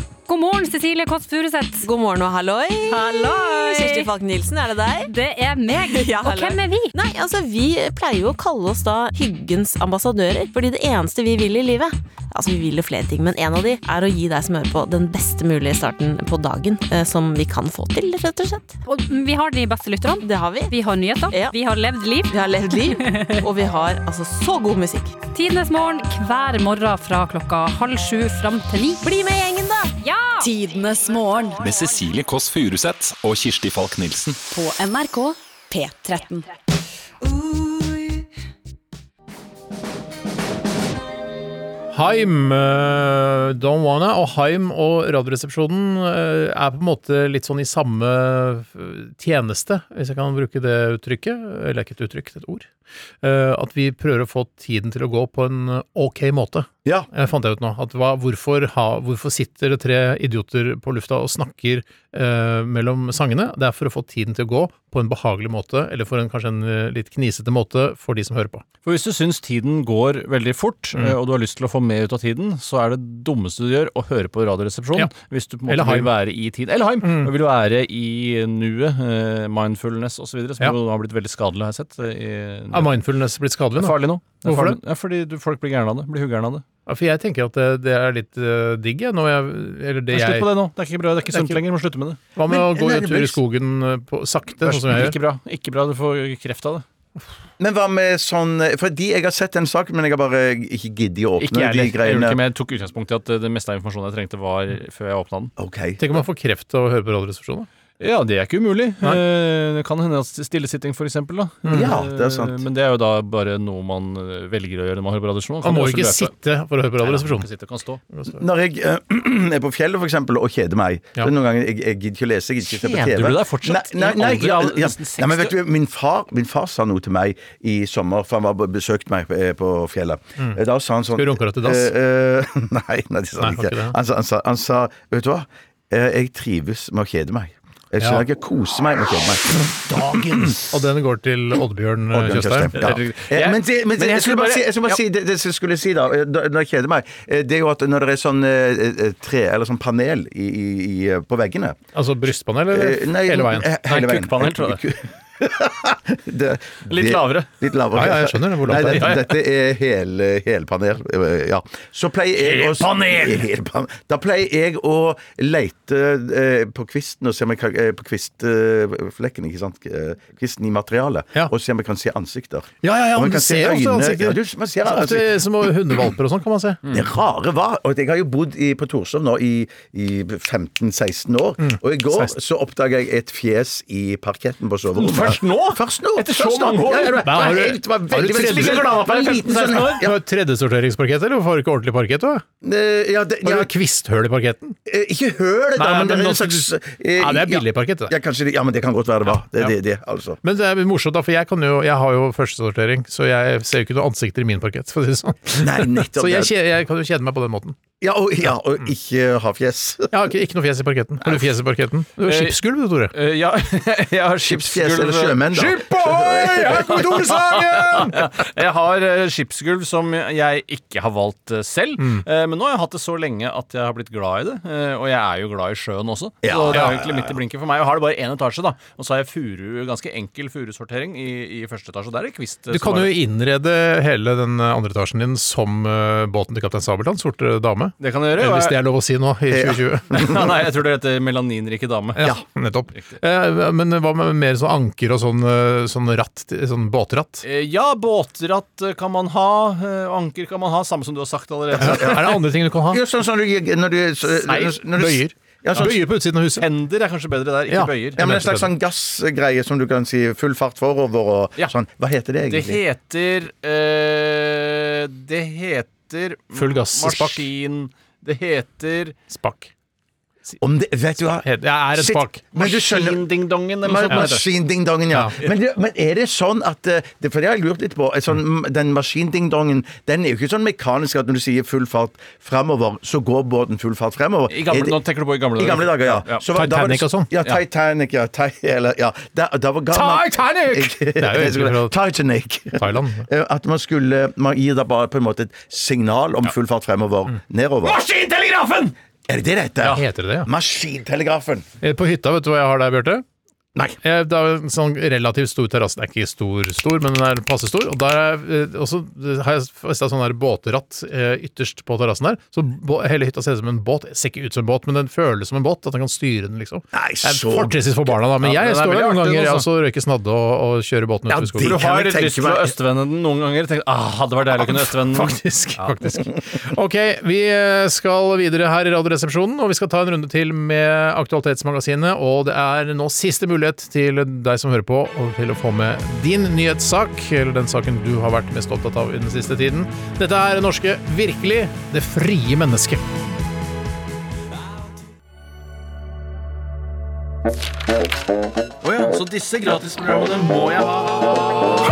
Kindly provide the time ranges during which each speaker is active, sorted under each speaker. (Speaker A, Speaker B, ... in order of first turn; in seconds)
Speaker A: 0.3-1.9, 2.9-4.1, 5.1-6.9, 18.8-23.5, 25.3-29.0, 30.0-30.5
Speaker B: 1.8-5.1, 5.7-18.8, 20.2-20.8, 21.3-21.6, 22.3-25.1, 29.0-29.9
Speaker C: 30.4-31.6, 34.5-36.5
Speaker D: 31.6-34.4
Speaker E: 41.9-52.7, 53.2-68.6, 75.7-76.1, 77.0-77.3, 82.7-84.8, 86.9-90.5, 91.3-91.6, 92.3-95.2, 106.0-107.7, 111.6-111.9, 115.6-117.5, 131.2-131.9, 133.4-133.9, 138.0-138.2, 140.5-142.9, 151.9-153.7, 157.9-159.1, 172.8-176.8, 181.6-182.3, 187.2-188.8, 189.7-192.4, 193.4-194.8, 195.8-196.6, 197.2-198.1, 200.4-207.8, 210.1-213.1, 215.5-218.2, 222.0-222.2, 226.7-227.0, 232.7-240.3, 242.2-247.4, 251.8-253.0, 254.9-256.6, 257.7-258.7, 266.5-267.4, 269.3-269.7, 271.4-272.4, 286.5-287.3, 289.9-291.9, 292.8-293.2, 299.8-300.5, 301.8-303.2, 304.0-321.8, 324.6-343.0
Speaker F: 68.8-82.9, 83.8-86.6, 90.1-92.2, 94.6-96.8, 101.4-105.5, 108.0-116.3, 117.0-118.0, 122.6-125.5, 142.7-145.0, 153.8-154.8, 156.9-157.5, 158.7-159.3, 162.4-163.4, 184.9-187.6, 188.2-190.0, 212.2-212.6, 213.1-215.9, 216.5-233.1, 238.0-238.8, 240.1-242.2, 247.4-252.3, 254.4-254.8, 256.6-258.2, 262.4-269.1, 272.5-274.4, 284.5-286.4, 297.8-298.9, 318.4-319.6, 321.6-325.9, 348.8-351.6
Speaker G: 92.5-93.4, 97.6-102.4, 105.6-106.0, 111.7-112.6, 118.3-140.5, 142.1-151.8, 152.7-175.7, 176.9-190.2, 192.6-193.7, 194.8-200.4, 205.5-206.5, 208.0-210.1, 214.4-217.2, 226.4-227.3, 239.5-240.5, 251.7-252.4, 252.9-256.0, 258.2-262.8, 270.6-273.3, 273.8-285.0, 285.6-298.0, 299.3-301.7, 316.9-317.8, 321.3-322.7